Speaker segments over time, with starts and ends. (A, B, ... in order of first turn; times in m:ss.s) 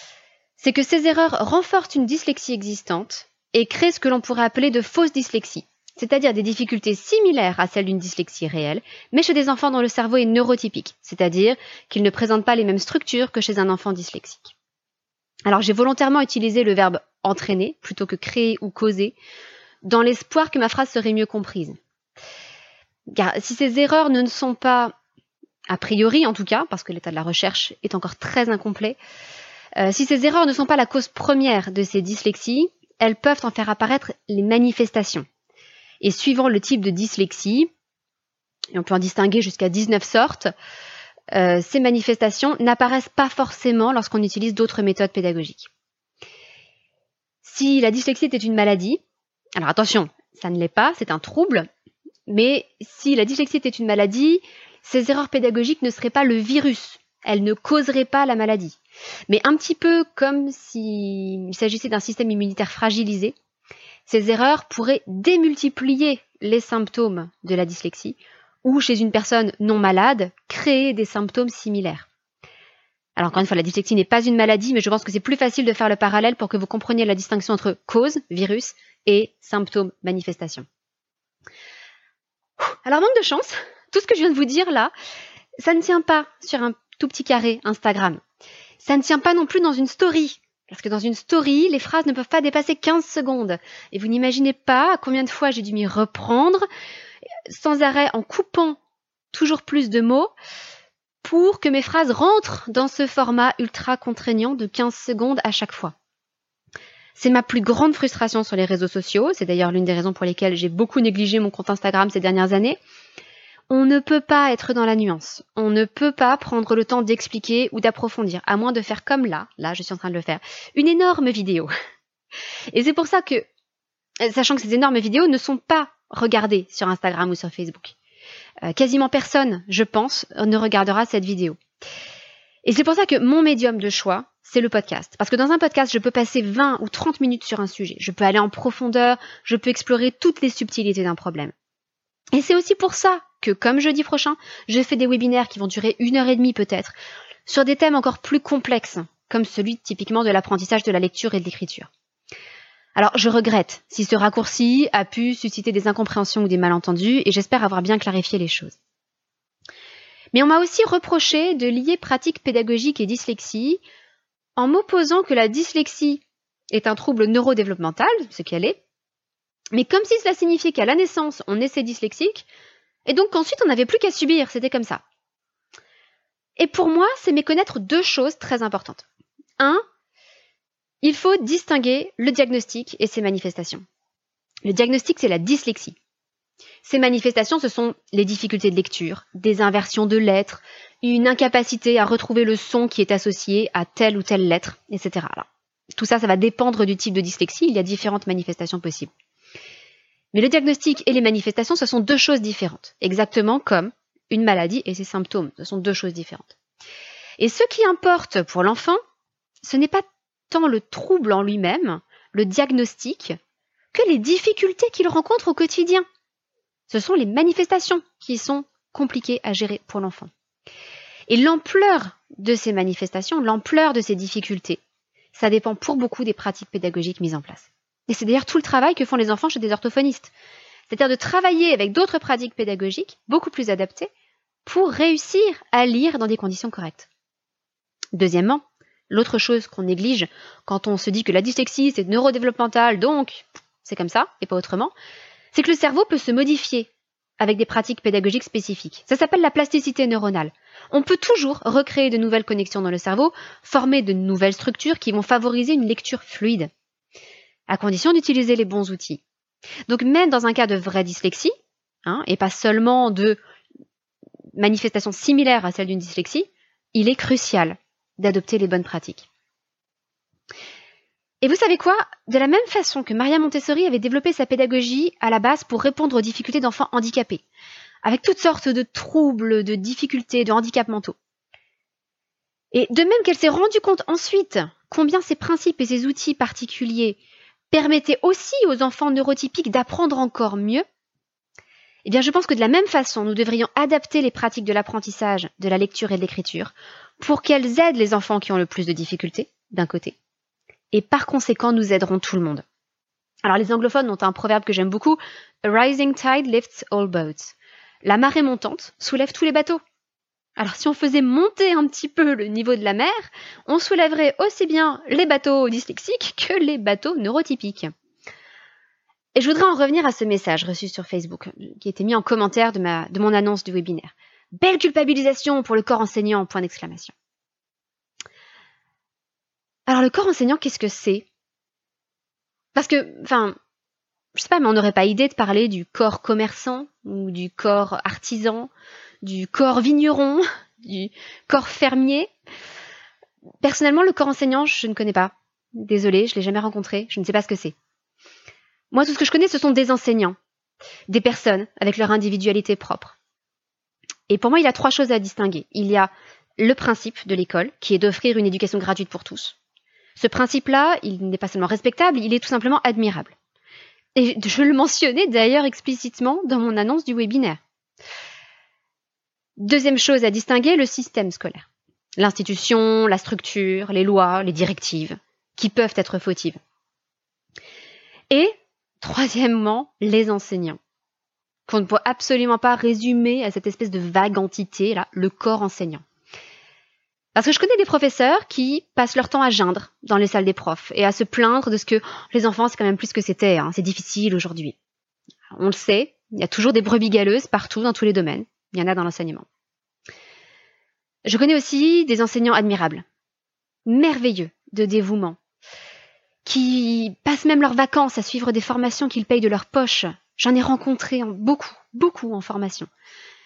0:00.6-0:14.5 A
0:15.4-0:19.2 A
0:19.8-0:21.8 A
0:23.1-0:24.9 A
0:25.7-0:29.0 A
0:29.8-0:35.2 A
0:36.0-0:37.7 A
0:38.7-0:40.5 A
0:41.3-0:45.7 A
0:47.4-0:49.0 A
0:49.6-0:51.7 A
0:52.3-0:58.8 A
0:59.3-1:03.3 A
1:04.1-1:12.1 A
1:13.2-1:20.6 A
1:22.8-1:24.9 A
1:25.6-1:28.2 A
1:28.8-1:36.6 A
1:37.5-1:38.8 A
1:39.3-1:40.3 A
1:41.2-1:45.9 A
1:47.2-1:52.8 A
1:53.7-2:01.7 A
2:02.7-2:03.4 A
2:04.2-2:07.9 A
2:08.6-2:11.6 A
2:12.6-2:21.5 A
2:22.3-2:26.9 A
2:27.4-2:31.9 A
2:33.0-2:38.8 A
2:40.3-2:43.8 A
2:44.6-2:48.8 A
2:49.7-2:52.4 A
2:53.0-2:55.0 A
2:56.6-2:59.0 A
3:01.0-3:03.8 A
3:04.6-3:06.0 A
3:06.8-3:19.1 A
3:20.3-3:26.6 A
3:27.4-3:29.0 A
3:29.6-3:33.4 A
3:33.9-3:36.0 A
3:36.9-3:40.3 A
3:41.3-3:44.8 A
3:45.3-3:50.3 A
3:50.9-3:54.1 A
3:54.6-3:57.1 A
3:58.1-4:04.9 A
4:05.5-4:16.7 A
4:17.7-4:19.2 A
4:19.9-4:21.5 A
4:22.0-4:23.4 A
4:24.6-4:29.3 A
4:31.4-4:37.4 A
4:38.0-4:41.2 A
4:42.7-4:47.2 A
4:47.7-4:50.8 A
4:52.0-5:00.1 A
5:00.9-5:02.6 A
5:03.4-5:09.8 A
5:10.6-5:17.9 A
5:19.4-5:27.1 A
5:29.9-5:31.2 A
5:32.7-5:33.6 A
5:34.3-5:38.7 A
5:39.2-5:42.3 A
5:43.6-5:47.7 A
5:48.9-5:50.4 A
5:51.1-5:53.1 A
5:54.3-5:59.6 A
6:00.2-6:03.3 A
6:04.2-6:07.6 A
6:09.6-6:11.6 A
6:12.2-6:16.6 A
6:18.3-6:20.8 A
6:21.7-6:26.0 A
6:27.3-6:34.8 A
6:35.5-6:39.4 A
6:41.2-6:43.0 A
6:43.8-6:45.4 A
6:46.4-6:52.9 A